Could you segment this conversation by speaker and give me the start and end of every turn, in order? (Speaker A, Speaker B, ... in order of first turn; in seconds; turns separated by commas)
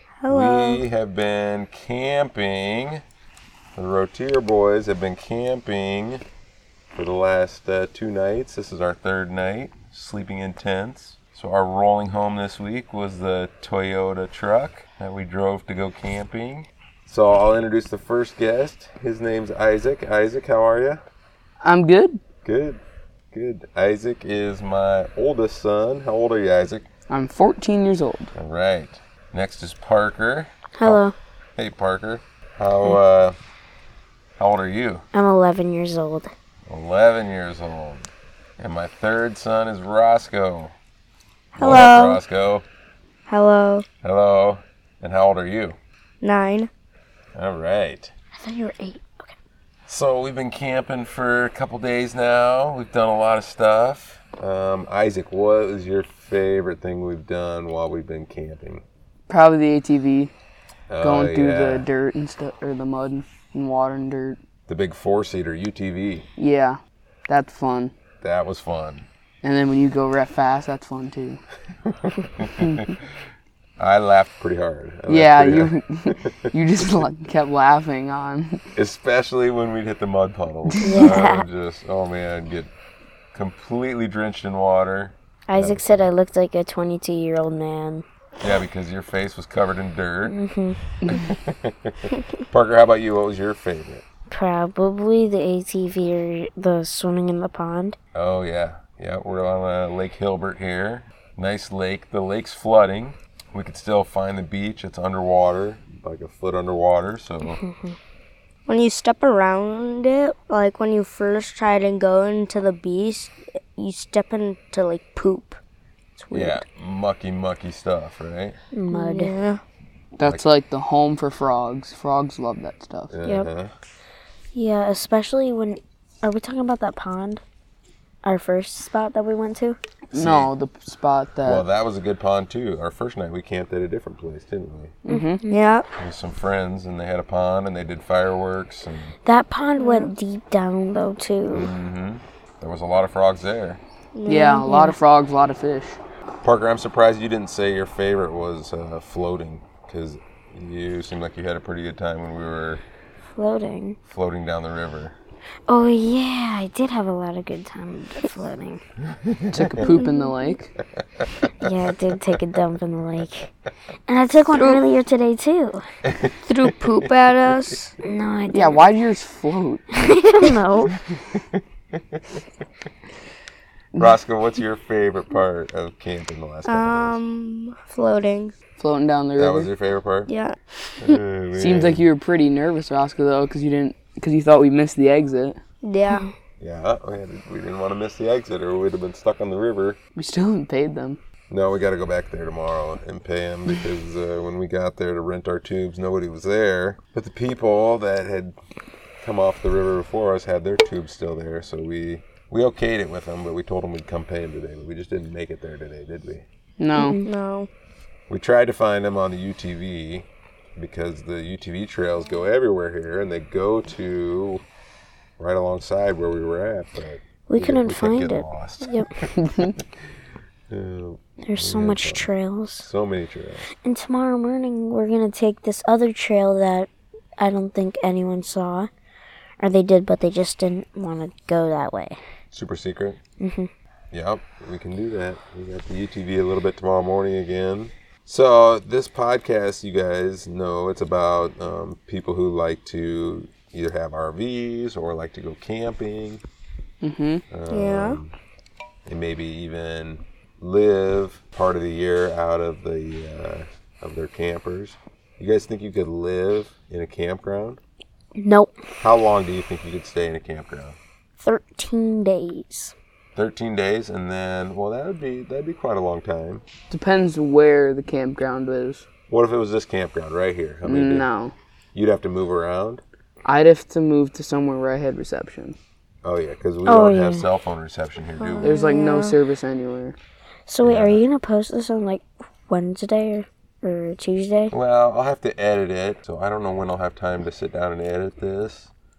Speaker A: 0.2-0.8, Speaker B: 0.3-3.0, Speaker B: 3.8-6.2, Speaker B: 6.9-21.0, Speaker C: 21.6-22.2, Speaker B: 22.4-22.8, Speaker B: 23.3-26.9, Speaker C: 27.1-28.3, Speaker B: 28.3-31.0, Speaker D: 30.7-31.1, Speaker B: 31.6-33.4, Speaker B: 34.4-35.0, Speaker D: 35.1-36.3, Speaker B: 36.7-40.7, Speaker A: 41.5-42.2, Speaker B: 41.6-42.6, Speaker A: 43.3-43.8, Speaker B: 44.0-45.8, Speaker A: 46.2-46.7, Speaker B: 47.3-48.1, Speaker D: 48.4-49.4, Speaker B: 49.9-58.8, Speaker C: 59.3-60.3, Speaker B: 60.9-61.9, Speaker C: 61.0-64.4, Speaker B: 64.7-66.3, Speaker C: 66.4-67.9, Speaker B: 68.2-69.0, Speaker C: 69.4-71.4, Speaker B: 71.8-73.0, Speaker B: 73.8-76.5, Speaker C: 75.1-78.6, Speaker B: 78.8-82.7, Speaker C: 80.7-81.1, Speaker D: 80.8-81.4, Speaker B: 83.3-86.0, Speaker D: 85.5-88.0, Speaker B: 88.4-90.3, Speaker D: 90.2-90.8, Speaker C: 91.0-91.3, Speaker B: 91.0-94.0, Speaker D: 94.3-98.0, Speaker B: 98.1-107.6, Speaker D: 107.5-108.0, Speaker A: 108.7-115.6, Speaker A: 116.2-116.6, Speaker B: 116.3-118.6, Speaker D: 118.7-119.3, Speaker A: 118.9-119.6, Speaker C: 120.2-123.1, Speaker B: 123.1-123.7, Speaker D: 123.2-123.5, Speaker D: 124.5-127.4, Speaker D: 128.2-129.8, Speaker C: 130.1-131.7, Speaker B: 130.1-130.5, Speaker B: 131.4-134.9, Speaker C: 135.0-135.4, Speaker D: 135.1-135.5, Speaker A: 135.5-135.9, Speaker B: 135.9-139.2, Speaker D: 139.2-141.7, Speaker A: 139.8-140.1, Speaker B: 141.5-143.8, Speaker A: 144.1-144.7, Speaker C: 144.2-146.0, Speaker D: 144.7-144.9, Speaker B: 146.4-152.8, Speaker D: 153.3-154.0, Speaker B: 154.1-155.2, Speaker D: 155.7-158.8, Speaker B: 159.1-159.9, Speaker C: 159.5-160.7, Speaker A: 159.8-160.1, Speaker B: 161.0-161.5, Speaker D: 161.6-163.5, Speaker D: 164.1-165.8, Speaker A: 164.5-164.8, Speaker B: 166.1-167.5, Speaker A: 166.4-167.9, Speaker D: 168.0-168.9, Speaker C: 168.5-169.8, Speaker D: 169.9-170.9, Speaker B: 171.3-172.4, Speaker B: 173.9-177.2, Speaker A: 176.7-178.5, Speaker C: 178.8-179.7, Speaker B: 179.4-180.3, Speaker A: 180.3-180.6, Speaker B: 181.0-182.1, Speaker C: 181.5-185.6, Speaker A: 185.8-186.3, Speaker B: 186.6-190.0, Speaker C: 190.2-191.2, Speaker B: 191.5-198.6, Speaker B: 199.2-206.4, Speaker C: 206.8-207.2, Speaker D: 207.0-207.3, Speaker A: 207.2-207.7, Speaker B: 208.3-214.6, Speaker B: 215.4-219.9, Speaker D: 217.5-219.1, Speaker C: 219.4-219.7, Speaker B: 220.7-223.7, Speaker D: 221.4-222.9, Speaker D: 223.8-228.9, Speaker D: 229.6-232.2, Speaker B: 232.5-233.2, Speaker D: 233.4-233.7, Speaker B: 234.1-246.4, Speaker C: 247.0-247.4, Speaker B: 247.5-248.3, Speaker A: 247.7-248.2, Speaker B: 249.1-257.8, Speaker D: 258.4-258.7, Speaker B: 259.0-261.0, Speaker D: 261.4-262.9, Speaker B: 263.3-266.6, Speaker C: 266.9-269.0, Speaker B: 269.3-271.3, Speaker C: 270.8-271.5, Speaker B: 271.9-273.0, Speaker C: 273.4-275.8, Speaker B: 276.2-278.8, Speaker D: 276.8-277.5, Speaker A: 278.4-279.4, Speaker C: 278.6-280.1, Speaker D: 280.7-284.7, Speaker B: 280.8-281.2, Speaker B: 284.7-288.9